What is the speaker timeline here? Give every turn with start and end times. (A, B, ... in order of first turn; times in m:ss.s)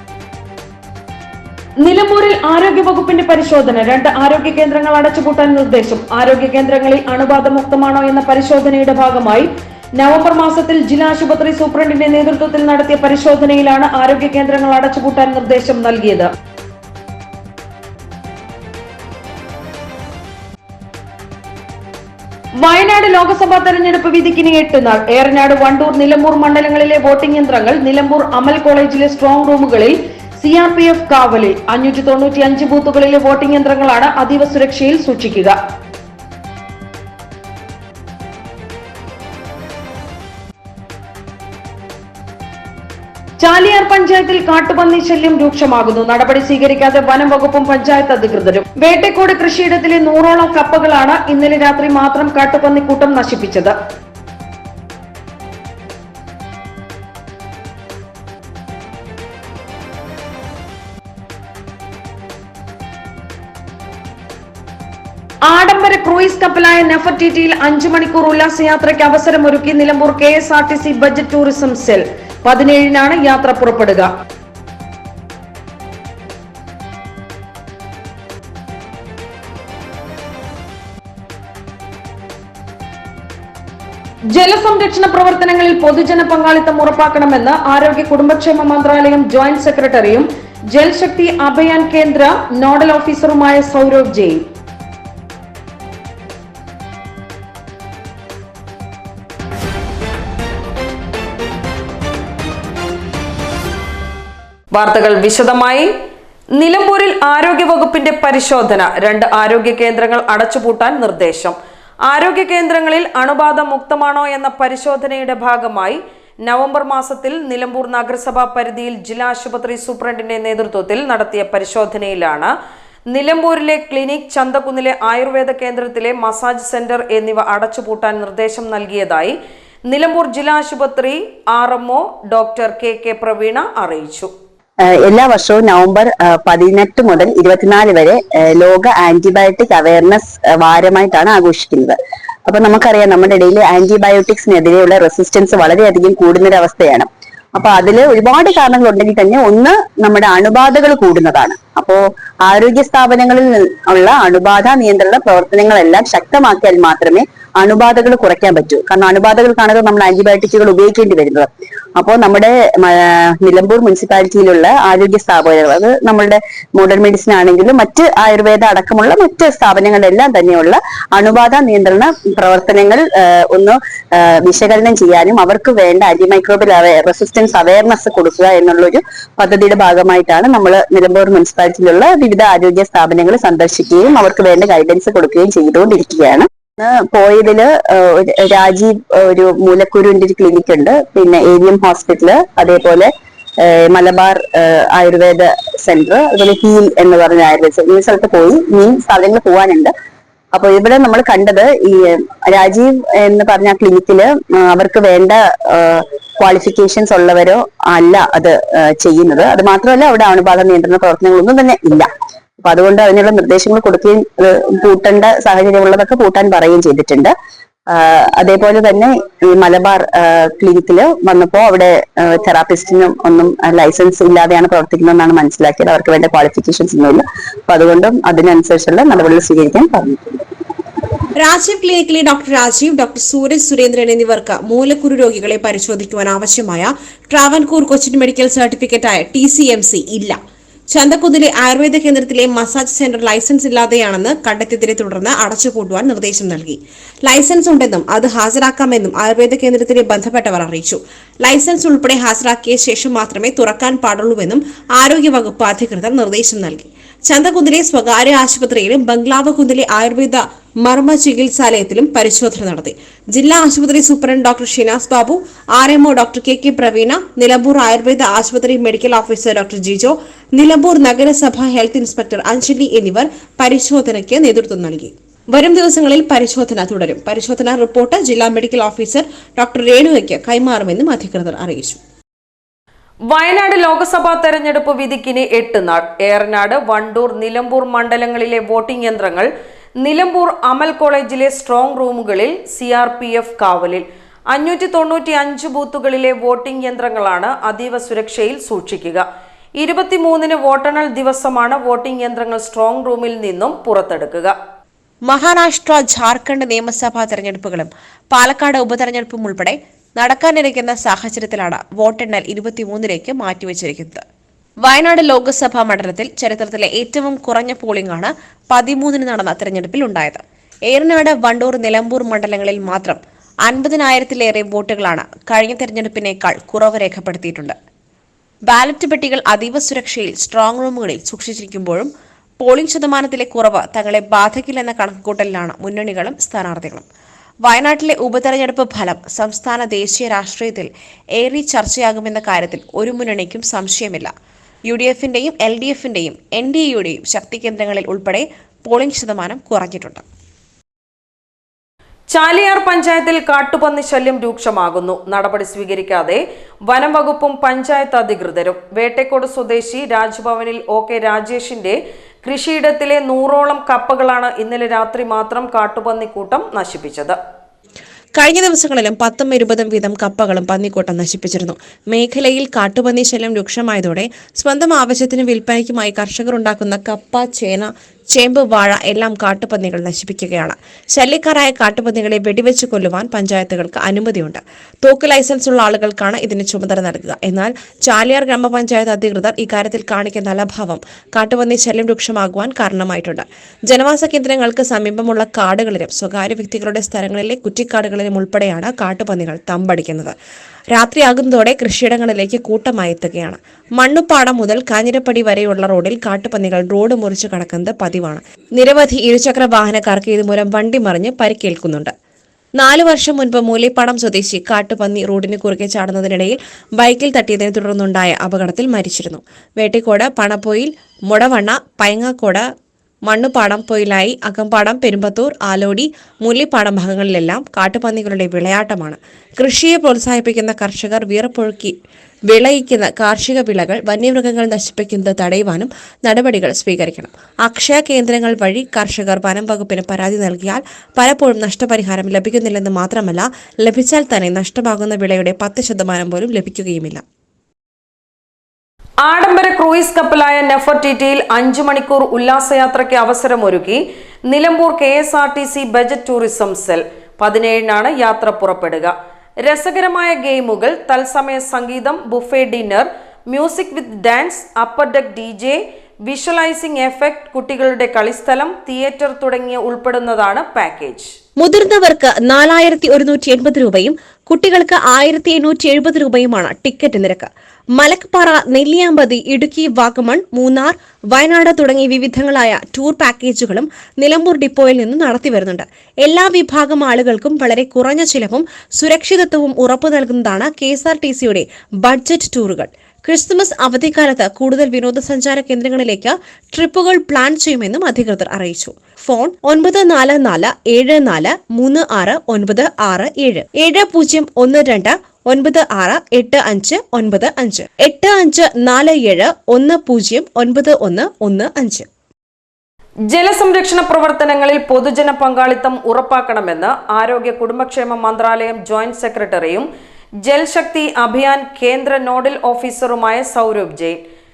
0:01.9-0:09.4 A
0:01.9-0:09.4 B
0:10.0-0:16.2 B
0:10.0-0:16.2 A
0:22.7-0:29.9 A
0:22.7-0:24.9 B
0:25.5-0:29.0 B
0:30.4-0:35.4 A
0:30.5-0:31.8 B
0:32.5-0:33.5 B
0:34.1-0:35.4 B
0:43.5-0:53.6 B
0:43.5-0:53.7 A
1:05.5-1:11.9 B
1:05.6-1:12.0 A
1:12.5-1:14.0 A
1:12.6-1:14.0 B
1:24.4-1:30.2 A
1:24.4-1:25.8 B
1:26.5-1:27.0 B
1:27.8-1:28.3 B
1:29.2-1:30.0 B
1:30.8-1:34.4 A
1:30.8-1:31.9 B
1:32.8-1:34.2 B
1:44.7-1:45.9 B
1:46.6-1:51.6 B
1:52.1-2:02.5 B
2:03.1-2:09.4 B
2:09.9-2:14.3 B
2:14.9-3:13.1 C
3:13.6-3:19.9 C
3:20.5-3:32.1 C
3:32.6-3:37.3 C
3:37.9-3:50.4 C
3:51.3-4:00.4 D
4:00.9-4:42.0 D
4:43.3-4:49.5 B
4:50.0-4:59.2 B
4:59.8-5:04.5 B
5:05.2-5:14.2 D
5:14.8-5:27.8 D
5:28.7-5:37.0 D
5:37.6-5:44.3 D
5:44.8-5:50.2 D
5:52.3-6:07.4 B
6:08.4-6:40.3 D
6:40.9-6:52.1 D
6:52.8-7:02.6 D
7:03.3-7:11.9 D
7:12.5-7:27.2 D
7:29.2-7:39.1 B
7:39.6-7:51.3 B
7:51.6-8:32.1 D
8:33.3-8:39.9 B
8:40.4-8:44.2 B